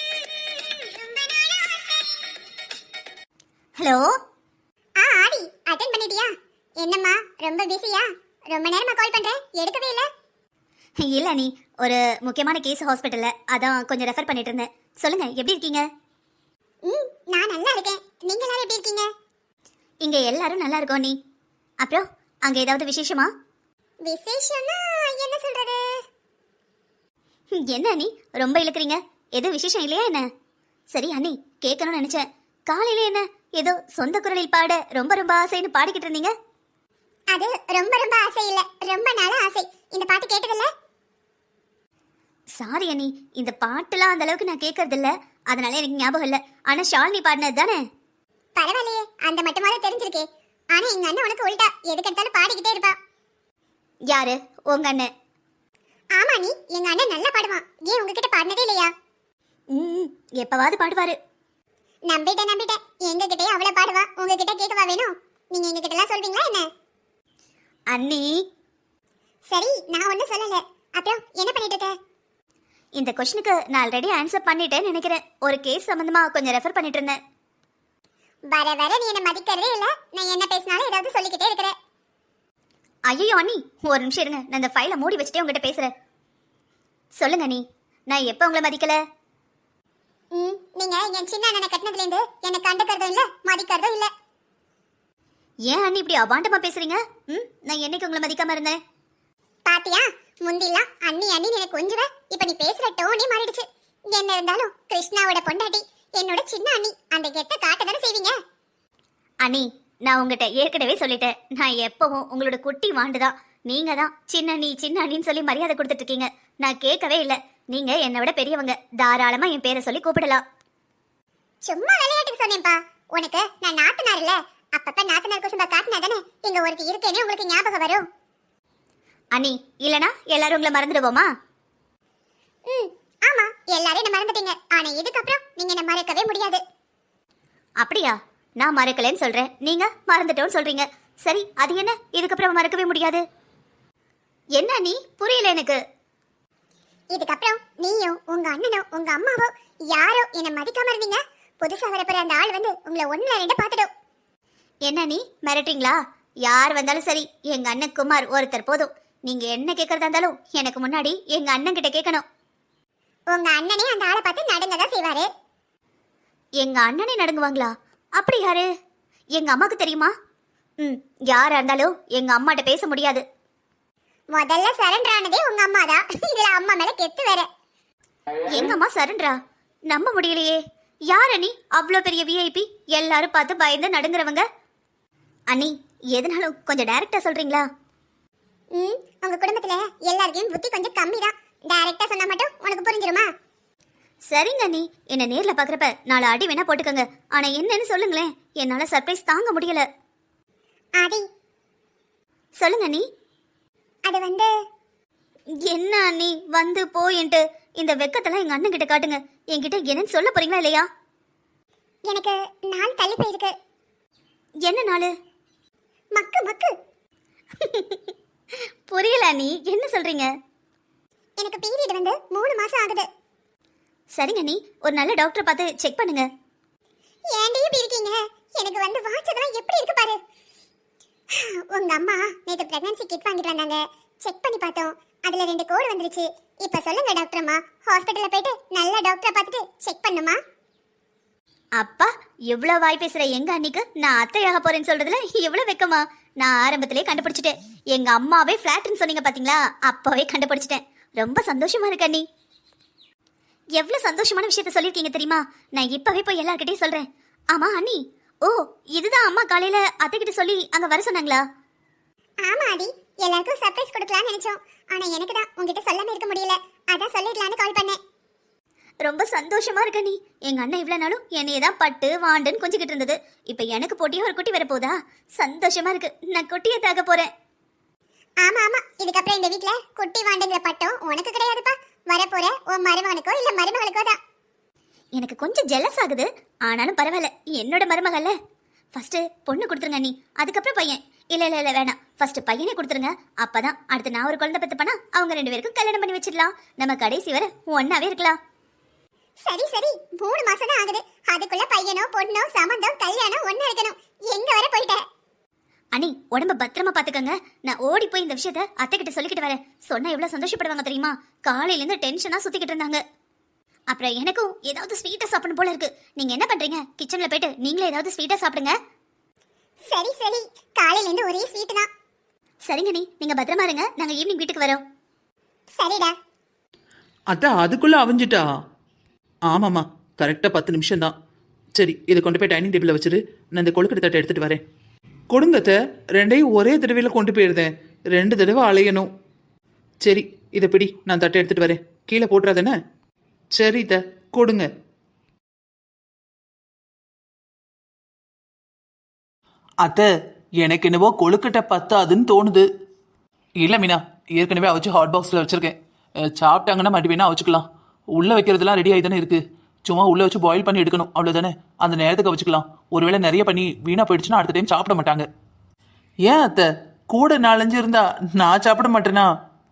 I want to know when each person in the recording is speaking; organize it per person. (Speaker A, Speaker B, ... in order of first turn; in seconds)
Speaker A: 1.0-1.8, 5.0-10.1, 16.9-19.1, 24.1-25.8, 37.3-40.7, 48.6-52.9, 56.1-58.9, 62.1-66.7, 69.5-71.9, 78.5-81.7, 90.3-94.1, 99.7-108.3, 121.7-128.0, 132.7-136.6, 147.1-153.9, 163.3-165.3, 174.3-177.5, 188.8-193.3, 201.0-201.2, 204.1-204.5, 212.1-213.5, 216.1-216.7, 221.4-223.1, 227.3-230.2, 231.6-240.4, 262.4-268.0, 278.4-284.1, 299.4-305.0, 319.9-321.9, 325.8-326.1
Speaker B: 3.8-4.1, 11.0-15.8, 20.0-21.1, 21.8-23.3, 27.5-30.3, 30.9-36.3, 42.6-47.8, 54.1-55.1, 59.7-61.2, 67.9-68.4, 73.0-77.2, 83.1-85.9, 87.2-89.0, 95.7-98.8, 109.4-120.4, 129.3-131.3, 137.8-143.2, 144.6-145.8, 154.9-162.2, 166.6-168.7, 169.4-170.1, 170.8-173.2, 178.5-179.4, 179.9-184.4, 185.5-187.7, 194.3-199.8, 202.6-203.1, 205.7-210.9, 214.7-215.1, 217.6-218.1, 218.9-220.3, 224.1-226.3, 241.8-252.2, 253.8-261.4, 269.0-277.3, 285.1-288.3, 288.9-298.4, 305.9-313.0, 313.9-318.8, 322.7-324.8
Speaker C: 327.3-328.4, 329.5-331.1, 331.8-334.6, 335.3-339.1, 340.0-342.8, 343.5-344.7, 349.8-350.1, 350.6-352.6, 353.6-355.8, 356.3-357.6, 358.1-365.3, 366.2-369.2